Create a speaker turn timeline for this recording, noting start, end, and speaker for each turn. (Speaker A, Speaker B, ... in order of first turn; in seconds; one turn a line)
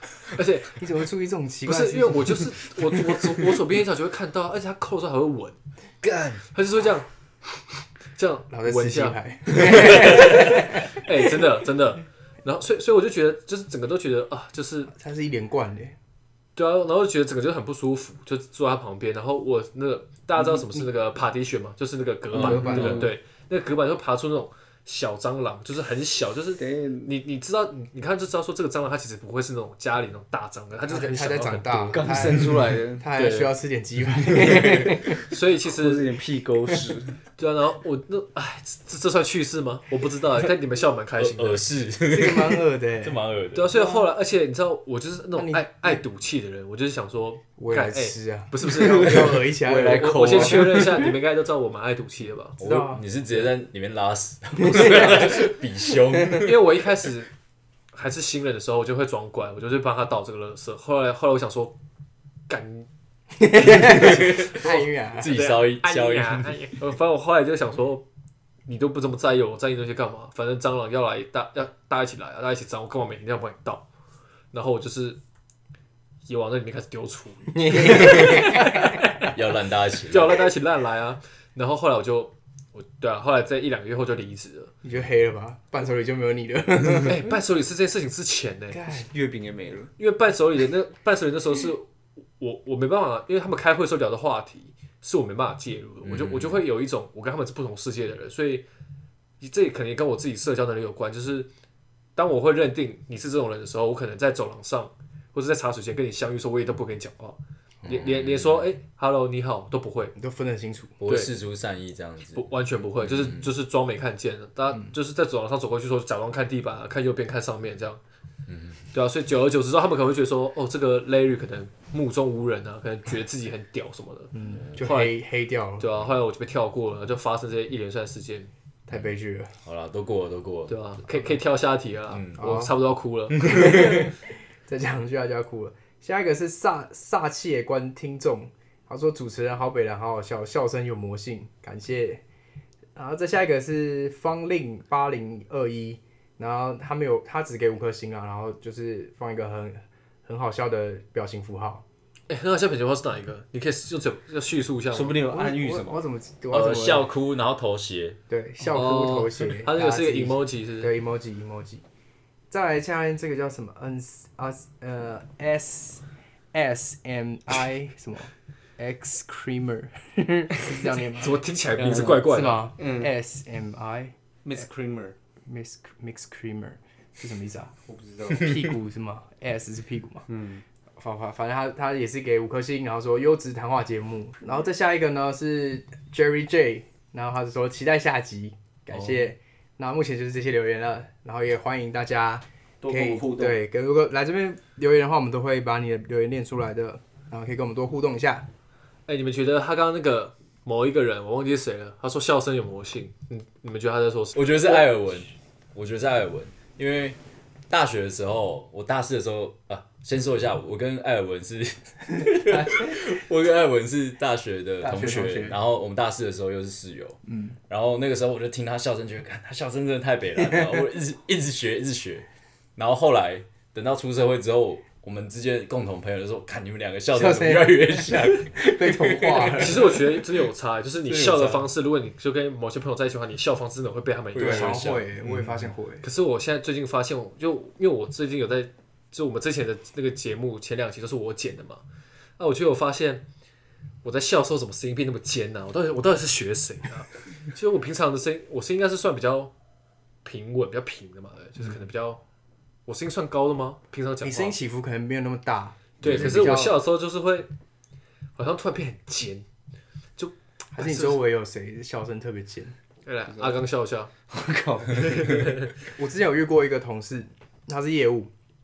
Speaker A: 0.3-0.8
Speaker B: 0.7-2.7
Speaker A: 1.7-5.6
Speaker C: 6.0-6.4
Speaker A: 6.5-7.1
Speaker A: 8.2-14.9
Speaker B: 8.5-11.0
Speaker B: 14.9-16.0
Speaker A: 16.6-32.2
Speaker C: 22.4-23.0
Speaker B: 22.4-23.1
Speaker D: 22.4-23.1
Speaker D: 26.6-27.1
Speaker B: 30.9-35.2
Speaker D: 31.9-33.3
Speaker A: 33.2-33.5
Speaker D: 34.3-35.1
Speaker A: 35.3-36.0
Speaker D: 35.6-37.2
Speaker A: 37.4-41.6
Speaker C: 41.2-43.7
Speaker B: 42.1-44.1
Speaker A: 43.5-49.4
Speaker B: 45.4-46.0
Speaker B: 47.6-50.6
Speaker D: 49.5-51.1
Speaker A: 50.0-52.6
Speaker C: 52.6-56.6
Speaker B: 52.6-53.5
Speaker B: 54.6-55.5
Speaker A: 56.4-57.3
Speaker A: 57.9-61.8
Speaker A: 62.5-62.9
Speaker B: 63.4-65.4
Speaker C: 63.6-66.7
Speaker A: 63.8-68.1
Speaker A: 68.7-73.9
Speaker A: 74.5-75.2
Speaker A: 76.3-78.6
Speaker B: 77.5-79.3
Speaker C: 77.8-80.5
Speaker A: 80.1-84.7
Speaker B: 84.8-87.3
Speaker A: 87.0-88.8
Speaker B: 88.8-89.1
Speaker D: 88.8-89.9
Speaker A: 90.0-91.9
Speaker A: 92.4-98.7
Speaker C: 96.0-96.6
Speaker A: 99.4-101.5
Speaker A: 102.2-110.1
Speaker C: 107.8-108.7
Speaker B: 110.2-111.0
Speaker C: 111.0-112.5
Speaker A: 112.3-118.0
Speaker C: 113.0-113.5
Speaker C: 118.5-118.9
Speaker A: 118.9-125.2
Speaker B: 124.3-125.8
Speaker A: 125.8-128.5
Speaker B: 128.9-129.5
Speaker C: 129.6-131.3
Speaker A: 130.7-133.8
Speaker C: 132.1-132.4
Speaker B: 132.4-132.7
Speaker B: 133.4-142.2
Speaker C: 133.5-133.9
Speaker B: 142.9-151.8
Speaker A: 152.3-155.2
Speaker D: 154.9-156.0
Speaker B: 155.3-157.1
Speaker C: 156.5-158.2
Speaker B: 158.3-161.8
Speaker A: 158.6-160.9
Speaker B: 162.5-174.1
Speaker A: 171.2-172.7
Speaker D: 171.8-172.2
Speaker D: 172.8-173.1
Speaker D: 174.4-175.2
Speaker B: 175.5-177.7
Speaker D: 177.9-178.7
Speaker B: 178.3-180.3
Speaker D: 180.3-180.6
Speaker B: 181.0-198.5
Speaker C: 188.9-189.3
Speaker D: 192.8-193.6
Speaker A: 199.1-204.5
Speaker C: 204.3-207.2
Speaker C: 207.7-230.0
Speaker B: 212.5-213.0
Speaker B: 214.8-215.6
Speaker B: 217.3-217.6
Speaker B: 220.5-220.8
Speaker B: 227.1-230.0
Speaker A: 229.6-234.8
Speaker C: 231.1-231.7
Speaker C: 234.3-235.7
Speaker B: 234.4-236.1
Speaker A: 236.0-241.8
Speaker A: 242.4-243.2
Speaker A: 244.0-249.5
Speaker A: 250.2-252.2
Speaker A: 252.9-254.6
Speaker B: 254.2-256.8
Speaker A: 256.0-257.5
Speaker C: 256.0-256.5
Speaker A: 258.4-259.5
Speaker A: 260.2-261.2
Speaker B: 260.7-262.7
Speaker A: 263.1-264.1
Speaker D: 263.3-263.6
Speaker D: 264.3-265.5
Speaker A: 265.0-265.7
Speaker B: 265.9-268.3